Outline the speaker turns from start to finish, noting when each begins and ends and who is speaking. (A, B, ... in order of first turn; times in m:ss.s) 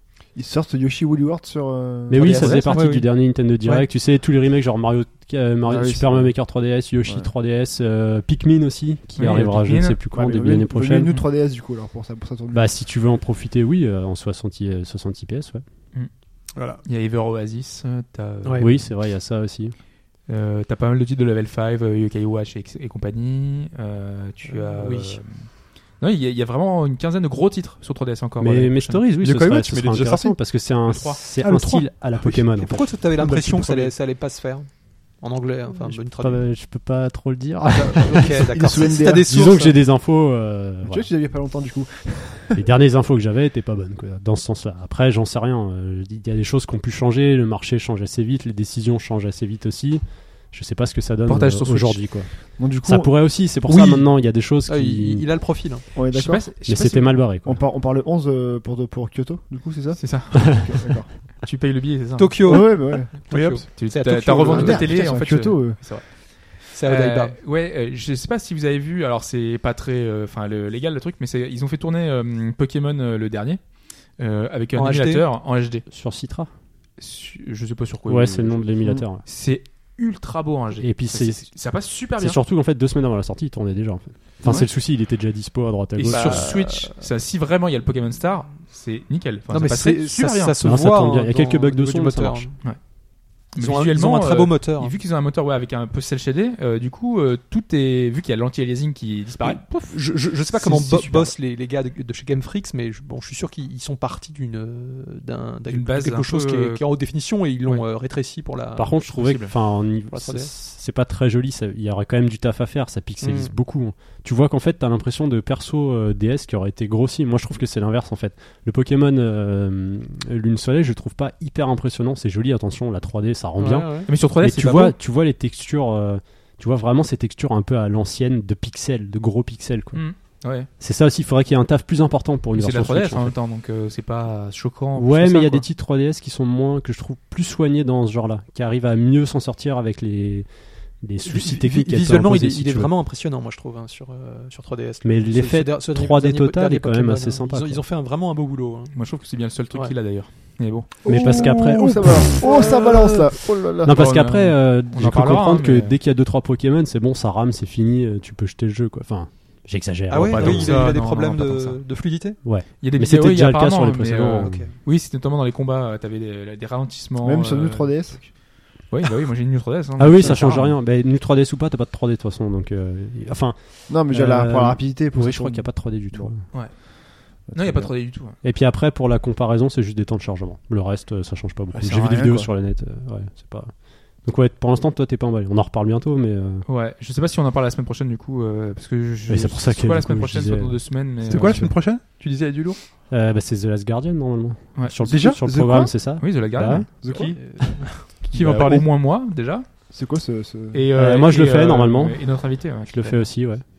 0:00.4-0:02.8 A
0:02.1-0:11.1 B
0:02.1-0:03.9 C
0:05.6-0:06.5 A
0:07.0-0:07.3 A
0:09.2-0:10.0 D
0:10.1-0:12.7 A
0:12.5-0:15.6 B
0:16.6-0:16.8 E
0:16.8-0:18.9 D
0:18.4-0:18.7 C
0:18.6-0:19.7 B
0:20.3-0:29.0 D
0:24.4-0:25.2 C
0:28.4-0:33.0 B
0:29.2-0:30.4 E
0:30.9-0:31.2 D
0:31.4-0:31.8 E
0:32.2-0:36.4 C
0:33.2-0:33.9 E
0:35.8-0:41.1 B
0:37.7-0:39.8 C
0:38.4-0:39.6 A
0:40.8-0:42.6 A
0:42.6-0:55.3 B
0:51.2-0:52.3 D
0:52.6-0:53.2 A
0:53.7-0:55.9 C
0:55.9-1:01.1 A
0:56.1-0:57.2 D
0:56.6-0:57.6 B
1:00.0-1:02.8 D
1:02.2-1:04.9 C
1:02.4-1:03.1 A
1:03.3-1:03.7 E
1:03.5-1:15.8 D
1:04.4-1:05.8 A
1:06.7-1:07.4 C
1:14.7-1:15.2 C
1:15.9-1:16.5 B
1:17.0-1:22.4 D
1:18.1-1:19.2 B
1:20.8-1:26.5 B
1:26.0-1:30.6 D
1:26.1-1:27.0 C
1:29.5-1:32.6 C
1:30.6-1:32.5 B
1:33.4-1:41.3 D
1:33.5-1:34.9 C
1:39.4-1:49.0 C
1:45.7-1:46.8 D
1:48.8-2:10.0 B
1:49.1-1:49.5 D
1:50.1-1:50.5 C
1:53.2-1:53.5 C
2:03.6-2:04.1 C
2:04.1-2:05.0 D
2:09.9-2:10.7 D
2:10.8-2:13.3 B
2:12.5-2:15.6 D
2:15.0-2:20.5 B
2:21.0-2:22.9 B
2:21.2-2:29.0 C
2:25.0-2:27.8 B
2:28.9-2:30.9 D
2:31.0-2:34.0 A
2:31.1-2:33.3 B
2:31.1-2:31.8 C
2:32.4-2:33.2 C
2:33.8-2:40.8 B
2:33.9-2:35.9 D
2:40.1-2:42.4 C
2:40.3-2:41.8 D
2:40.6-2:40.9 E
2:42.4-2:44.7 B
2:42.8-2:50.7 D
2:44.4-2:44.7 C
2:47.2-2:48.2 A
2:50.0-2:56.4 B
2:53.9-2:56.8 A
2:56.5-2:58.4 D
2:57.4-2:57.9 A
2:58.4-3:06.6 B
3:01.7-3:02.5 A
3:06.7-3:11.6 D
3:09.3-3:11.8 B
3:11.2-3:12.8 E
3:13.1-3:16.9 B
3:15.0-3:15.4 E
3:15.0-3:16.4 A
3:16.1-3:19.6 D
3:17.0-3:18.8 A
3:17.1-3:18.0 C
3:19.9-3:20.9 A
3:20.7-3:23.3 D
3:20.9-3:23.6 B